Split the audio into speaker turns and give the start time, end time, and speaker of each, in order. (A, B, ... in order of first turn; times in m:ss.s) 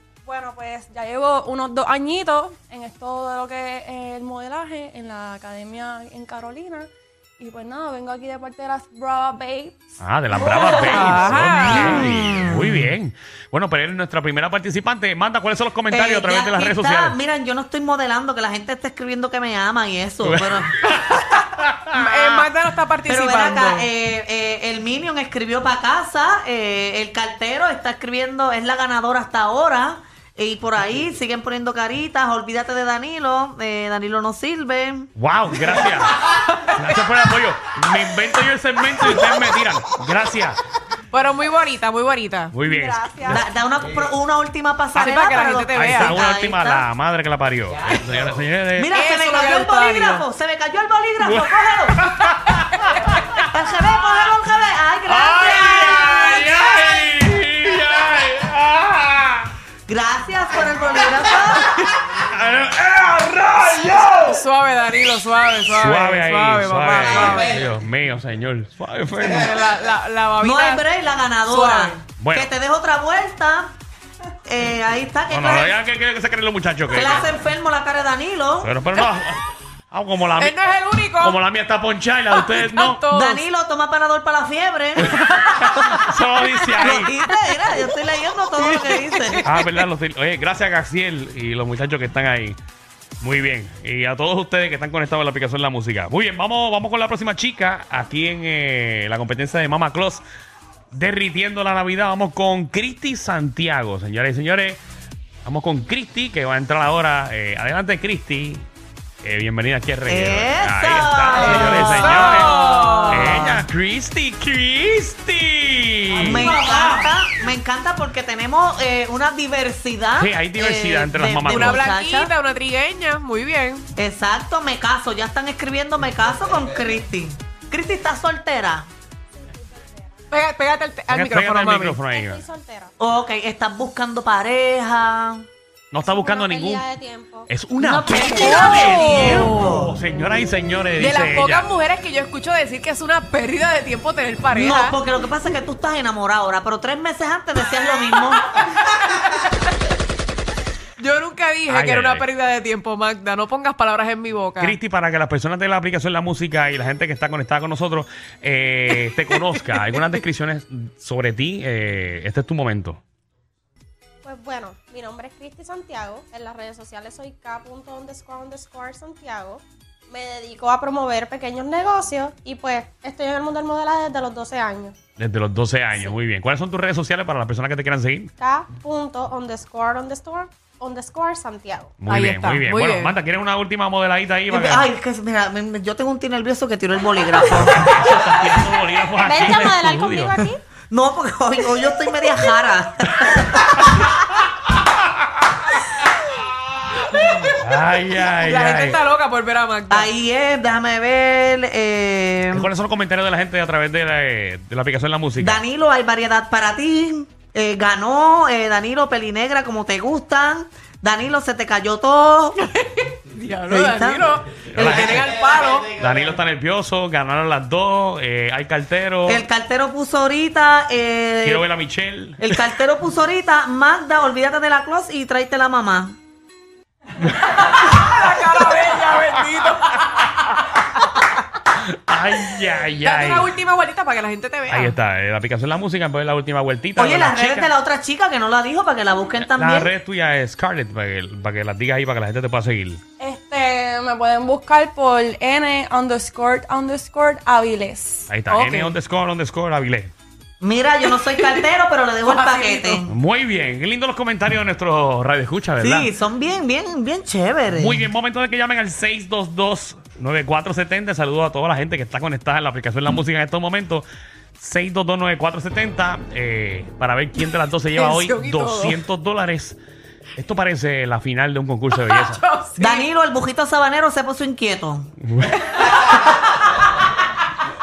0:00.2-0:09.8 A
0:10.0-0:17.2 B
0:10.6-0:12.2 C
0:11.5-0:12.9 D
0:15.9-0:20.9 D
0:20.2-0:22.0 B
0:21.9-0:23.9 C
0:23.0-0:35.1 D
0:35.2-0:40.6 B
0:41.1-0:42.5 C
0:42.5-0:43.4 B
0:42.6-0:43.4 A
0:43.2-0:46.8 D
0:45.0-0:46.2 C
0:45.7-0:48.9 B
0:48.8-0:52.0 D
0:48.9-0:50.2 C
0:51.2-0:53.4 B
0:53.5-0:56.9 D
0:55.1-0:59.5 B
0:59.9-1:01.7 D
1:01.6-1:01.9 C
1:02.0-1:04.4 B
1:04.3-1:07.5 C
1:05.7-1:09.6 B
1:09.3-1:10.8 C
1:10.4-1:13.7 D
1:11.4-1:12.0 C
1:12.2-1:12.5 B
1:14.4-1:15.7 D
1:15.3-1:17.4 B
1:16.9-1:18.7 D
1:18.6-1:20.6 B
1:20.4-1:21.4 C
1:21.2-1:23.0 B
1:22.3-1:23.4 C
1:23.1-1:25.2 D
1:25.1-1:27.1 B
1:26.8-1:29.5 D
1:28.6-1:29.6 C
1:29.4-1:32.6 B
1:33.2-1:40.2 B
1:40.9-1:44.8 B
1:45.4-1:48.6 B
1:49.2-1:56.6 B
1:50.1-1:53.4 D
1:51.4-1:53.6 C
1:56.1-2:02.3 D
2:00.2-2:01.9 B
2:01.5-2:03.8 C
2:04.0-2:08.9 D
2:09.4-2:10.0 E
2:10.3-2:12.0 C
2:11.1-2:12.4 B
2:12.1-2:12.9 E
2:13.0-2:15.4 D
2:15.9-2:16.8 B
2:16.0-2:17.5 E
2:17.5-2:21.7 B
2:17.8-2:19.9 D
2:18.4-2:19.5 C
2:21.0-2:25.0 C
2:24.5-2:28.5 D
2:31.0-2:34.8 C
2:31.7-2:32.3 B
2:34.6-2:43.0 B
2:44.2-2:54.9 E
2:55.2-2:58.3 B
2:58.4-3:01.9 E
3:02.0-3:04.9 B
3:02.1-3:03.1 C
3:04.5-3:08.0 D
3:07.7-3:10.4 B
3:09.2-3:10.6 E
3:10.9-3:14.1 D
3:17.6-3:19.0 B
3:18.3-3:20.1 C
3:19.9-3:22.7 D
3:22.5-3:25.6 B
3:25.4-3:32.6 D
3:32.6-3:35.9 C
3:33.7-3:35.2 D
3:34.7-3:35.3 B
3:35.9-3:39.4 B
3:39.2-3:41.6 D
3:41.4-3:42.5 B
3:42.4-3:46.2 D
3:47.2-3:47.6 B
3:47.4-3:50.6 C
3:51.7-3:53.5 B
3:53.0-3:55.0 C
3:54.7-3:57.7 B
3:57.0-3:59.9 D
3:59.4-4:03.0 B
4:03.2-4:08.3 A
4:08.3-4:10.1 B
4:08.5-4:08.9 C
4:10.6-4:13.1 D
4:11.1-4:11.6 C
4:12.2-4:13.0 C
4:13.1-4:16.1 B
4:15.8-4:18.1 D
4:17.7-4:24.0 B
4:24.6-4:29.8 B
4:27.9-4:29.0 C
4:30.4-4:32.4 B
4:31.9-4:33.1 C
4:32.8-4:35.1 D
4:35.2-4:35.7 B